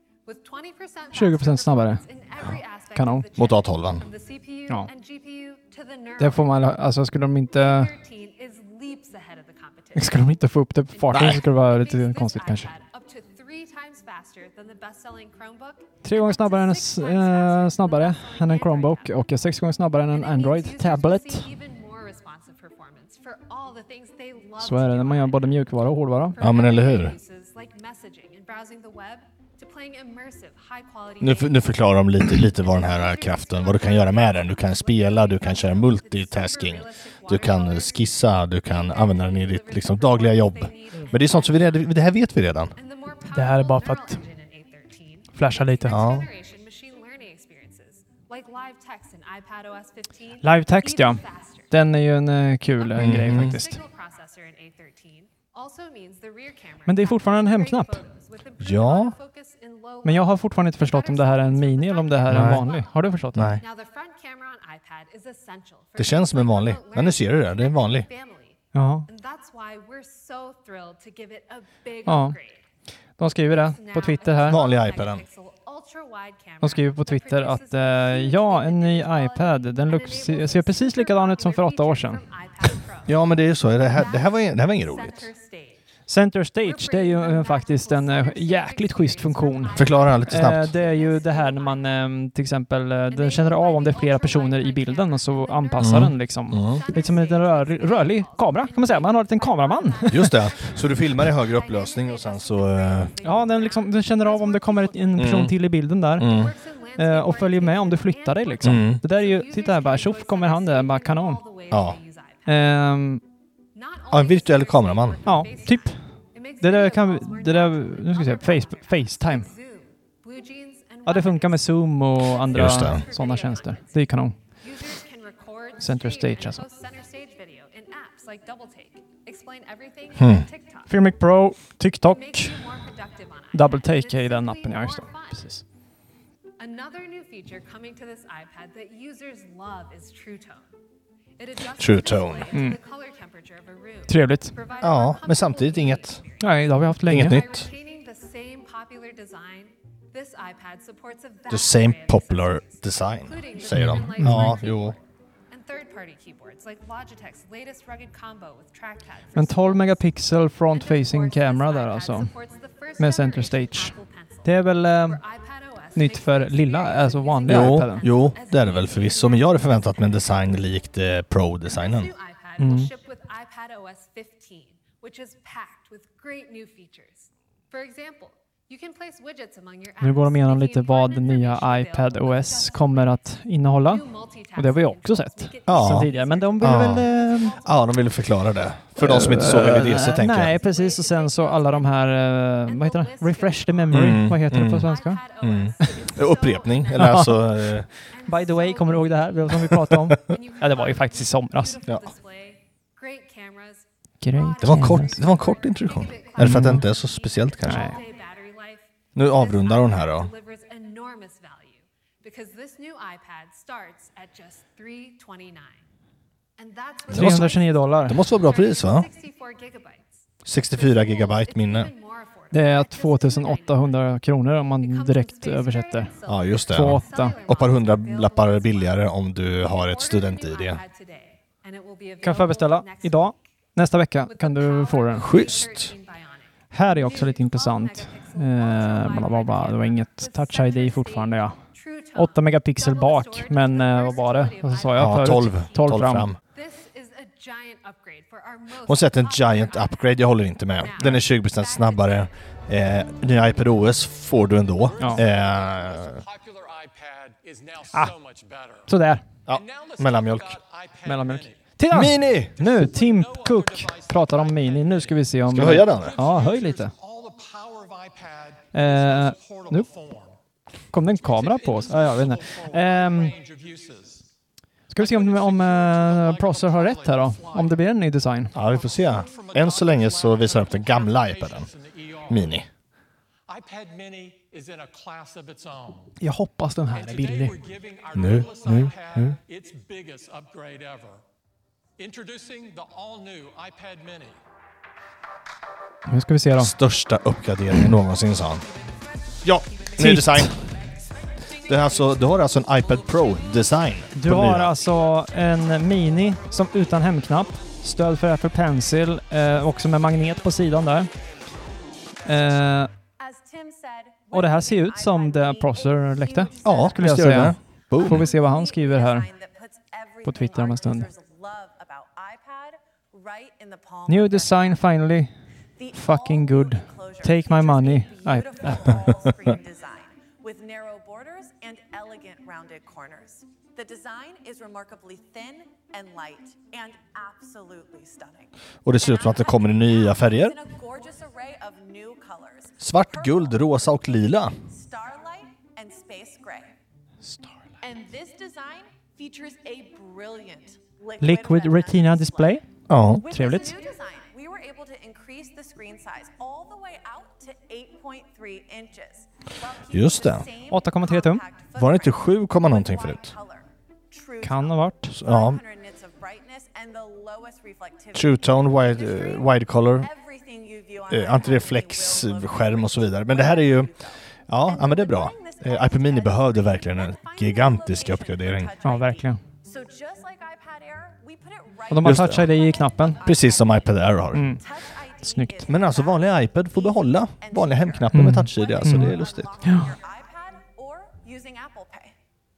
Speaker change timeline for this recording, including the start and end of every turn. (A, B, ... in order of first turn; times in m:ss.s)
0:00.2-0:06.8 A
0:01.1-0:02.0 B
0:03.0-0:03.2 B
0:03.4-0:04.1 C
0:06.2-0:07.9 B
0:07.5-0:10.4 A
0:10.0-0:12.7 B
0:10.9-0:19.2 A
0:11.1-0:11.4 C
0:16.0-0:21.5 B
0:20.0-0:31.8 A
0:24.6-0:26.4 B
0:26.4-0:27.2 C
0:31.2-0:42.7 C
0:32.3-0:42.0 A
0:42.8-0:51.7 A
0:43.3-0:44.2 B
0:45.4-0:46.0 B
0:45.9-0:46.3 C
0:50.4-0:53.8 B
0:52.8-1:12.6 A
0:53.0-0:53.6 C
0:56.9-0:58.0 B
0:58.6-0:59.1 C
1:00.0-1:03.5 B
1:02.3-1:02.6 C
1:03.4-1:03.6 C
1:06.0-1:08.1 C
1:08.7-1:09.1 B
1:12.1-1:12.4 B
1:13.2-1:14.6 B
1:13.5-1:23.3 A
1:14.5-1:15.2 C
1:16.6-1:22.7 B
1:23.1-1:25.3 C
1:23.9-1:25.9 A
1:26.1-1:40.4 B
1:26.6-1:32.1 A
1:29.8-1:30.7 C
1:33.1-1:45.5 A
1:35.8-1:36.8 C
1:40.1-1:43.1 C
1:43.2-1:46.3 B
1:45.2-1:45.6 C
1:46.2-1:46.5 C
1:46.2-1:52.6 A
1:47.0-1:51.4 B
1:48.6-1:49.0 C
1:51.7-1:52.0 C
1:52.5-1:53.2 B
1:53.7-2:11.1 A
1:54.1-1:55.2 C
1:55.2-1:59.5 B
2:01.1-2:04.4 B
2:02.5-2:03.0 C
2:05.8-2:06.6 B
2:10.2-2:10.5 C
2:10.9-2:12.6 B
2:12.0-2:15.6 A
2:13.5-2:15.6 B
2:16.6-2:20.7 A
2:21.4-2:50.6 A
2:21.8-2:22.5 C
2:22.5-2:22.8 B
2:24.1-2:24.5 B
2:24.8-2:26.2 C
2:26.4-2:27.4 B
2:27.1-2:27.7 C
2:31.5-2:35.0 C
2:33.7-2:34.6 B
2:39.4-2:42.3 B
2:43.0-2:45.2 B
2:45.9-2:48.1 B
2:47.5-2:52.1 C
2:51.7-3:07.8 A
2:52.6-2:52.9 B
3:00.0-3:07.6 B
3:05.6-3:10.6 C
3:09.0-3:15.2 B
3:09.4-3:35.8 A
3:13.9-3:17.9 C
3:15.8-3:16.1 B
3:17.0-3:17.4 B
3:18.1-3:21.8 B
3:24.2-3:25.2 B
3:24.6-3:27.9 C
3:26.4-3:26.8 B
3:27.6-3:28.0 B
3:29.1-3:30.3 C
3:36.6-3:53.4 A
3:37.1-3:39.1 C
3:37.1-3:38.2 B
3:40.4-3:41.9 C
3:42.5-3:46.1 B
3:46.2-3:50.8 C
3:46.7-3:47.4 B
3:52.2-3:55.3 B
3:54.2-4:12.3 A
3:55.2-3:55.9 C
3:56.7-4:06.3 B
4:05.0-4:06.4 C
4:08.9-4:16.2 C
4:14.8-4:18.9 D
4:18.9-4:19.2 B
4:19.5-4:20.6 C
4:19.5-4:21.8 D
4:21.0-4:26.9 B
4:21.9-4:22.5 C
4:22.6-4:30.4 D
4:25.5-4:26.2 C
4:28.7-4:29.9 B
4:30.9-4:33.4 B
4:31.2-4:34.3 D
4:34.9-4:38.5 B
4:35.0-4:37.9 D
4:38.5-4:42.6 D
4:38.5-4:41.7 C
4:42.3-4:42.7 C
4:43.5-4:46.2 D
4:46.2-4:47.5 B
4:46.9-4:51.2 D
4:48.1-4:49.4 C
4:52.0-4:54.4 D
4:56.1-4:56.7 B
4:56.6-4:58.6 C
4:59.4-5:00.6 C
5:00.0-5:00.6 B
5:01.6-5:04.8 C
5:04.1-5:11.1 B
5:12.2-5:12.9 B
5:13.2-5:17.4 E
5:14.3-5:19.3 B
5:16.6-5:18.3 C
5:18.0-5:24.9 E
5:20.2-5:21.1 B
5:24.1-5:25.3 B
5:25.8-5:44.2 E
5:25.9-5:29.3 B
5:38.8-5:40.6 C
5:42.8-5:44.6 C
5:44.7-5:46.8 E
5:47.8-6:32.2 E
5:51.2-5:52.7 B
5:52.9-5:53.2 C
5:53.3-5:53.8 B
5:59.9-6:00.5 C
6:00.7-6:01.4 B
6:01.8-6:03.3 C
6:04.4-6:05.1 B
6:05.2-6:05.6 C
6:08.1-6:10.1 C
6:11.1-6:13.9 C
6:14.5-6:18.7 C
6:18.8-6:19.4 B
6:21.9-6:23.2 B
6:22.0-6:22.5 C
6:23.2-6:24.5 C
6:24.3-6:24.6 B
6:25.2-6:25.7 B
6:25.7-6:29.5 C
6:28.1-6:29.9 B